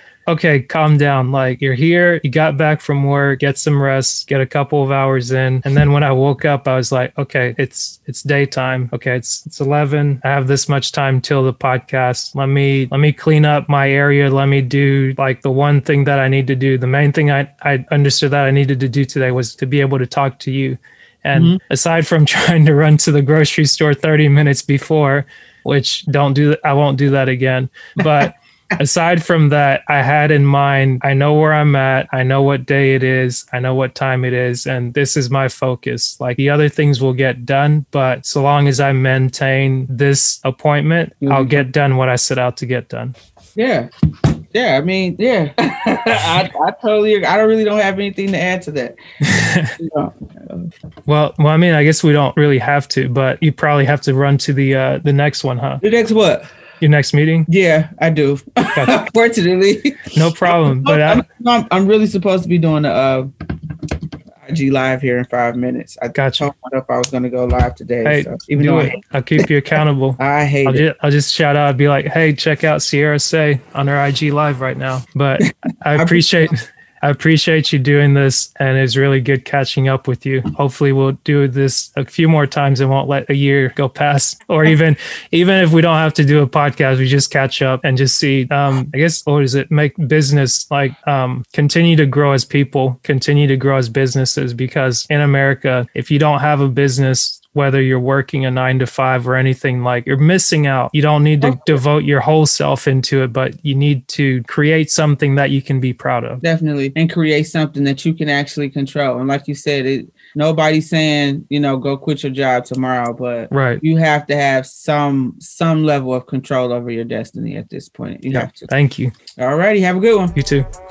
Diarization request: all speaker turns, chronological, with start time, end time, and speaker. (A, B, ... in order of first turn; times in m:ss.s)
0:00.3-0:43.2 A
0:21.3-0:21.6 B
0:28.0-0:28.3 B
0:41.2-0:41.6 B
0:43.6-0:49.0 B
0:49.2-0:49.8 A
0:49.8-0:50.7 B
0:51.1-0:55.8 A
0:55.8-0:56.5 B
0:56.8-0:57.5 A
0:57.5-1:03.3 B
0:58.7-0:59.0 A
1:00.1-1:01.2 A
1:04.4-1:09.4 B
1:06.1-1:06.5 A
1:08.0-1:46.4 A
1:10.2-1:10.8 B
1:16.0-1:16.2 B
1:41.4-1:41.8 B
1:46.4-1:58.7 B
1:53.5-1:53.8 A
1:58.3-1:59.1 A
1:59.4-2:00.4 B
2:00.4-2:00.7 A